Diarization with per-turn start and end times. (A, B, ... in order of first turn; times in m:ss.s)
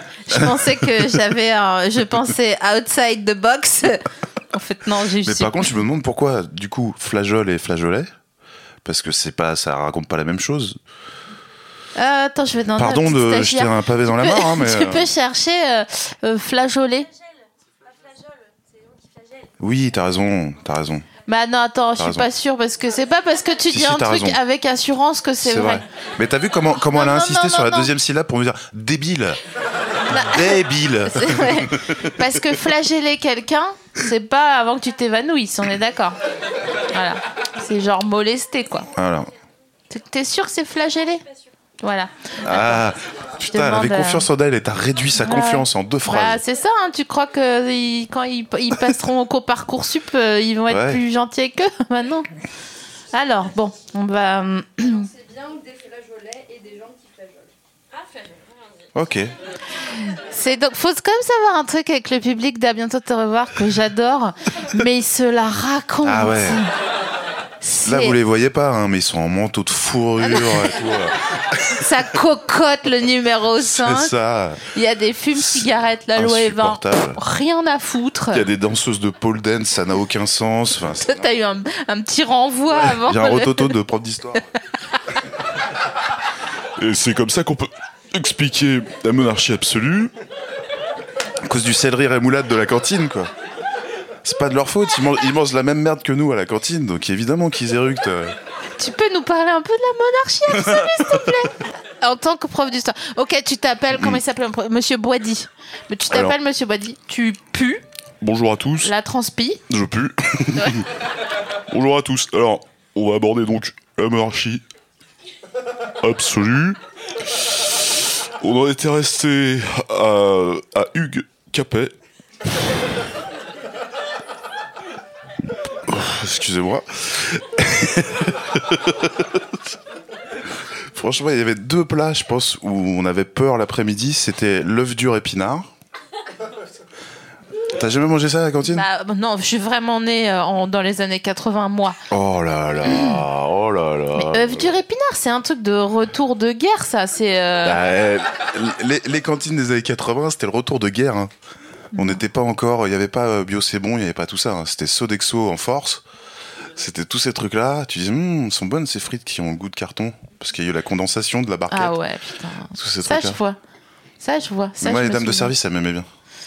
0:00.3-0:05.6 A
0:00.3-0:01.2 B
0:05.2-0:08.1 B
0:08.8-0:10.8 B
0:12.0-0:17.1 A
0:12.8-0:15.1 B
0:19.6-0:21.1 B
0:21.3-0:25.8 A
0:22.0-0:22.3 B
0:23.7-0:24.4 B
0:25.4-0:29.4 B
0:26.9-0:27.9 A
0:30.1-0:36.2 A
0:30.1-0:32.6 B
0:36.9-0:38.9 A
0:38.9-0:39.3 B
0:39.9-0:41.2 A
0:41.8-0:42.8 A
0:42.4-0:46.4 B
0:43.5-0:44.3 A
0:45.2-0:52.3 A
0:50.7-0:51.0 B
0:53.1-0:55.0 A
0:54.8-0:57.5 C
0:58.9-0:59.3 B
0:59.9-1:06.7 A
1:06.0-1:06.6 B
1:07.6-1:08.2 A
1:07.8-1:12.0 B
1:10.2-1:10.8 A
1:11.7-1:14.1 A
1:13.6-1:14.7 B
1:14.7-1:18.5 A
1:15.3-1:17.2 B
1:18.3-1:21.3 B
1:21.0-1:23.7 A
1:22.8-1:24.4 B
1:26.8-1:30.1 B
1:31.4-1:33.3 B
1:34.2-1:38.4 B
1:38.8-1:47.8 A
1:40.5-1:41.4 B
1:43.9-1:44.2 B
1:46.1-1:46.4 B
1:48.2-1:48.9 B
1:48.8-1:49.6 A
1:49.7-1:50.8 B
1:50.6-1:50.8 A
1:51.7-1:54.6 B
1:56.0-2:01.9 B
2:05.8-2:09.6 B
2:10.8-2:15.7 B
2:17.7-2:18.9 B
2:18.7-2:22.0 A
2:22.1-2:24.8 B
2:22.9-2:23.2 A
2:24.2-2:27.8 A
2:27.6-2:31.3 B
2:31.9-2:36.0 B
2:31.9-2:32.2 A
2:36.7-2:42.0 B
2:41.7-2:43.6 A
2:42.7-2:43.4 B
2:44.2-2:45.5 A
2:44.8-2:46.1 B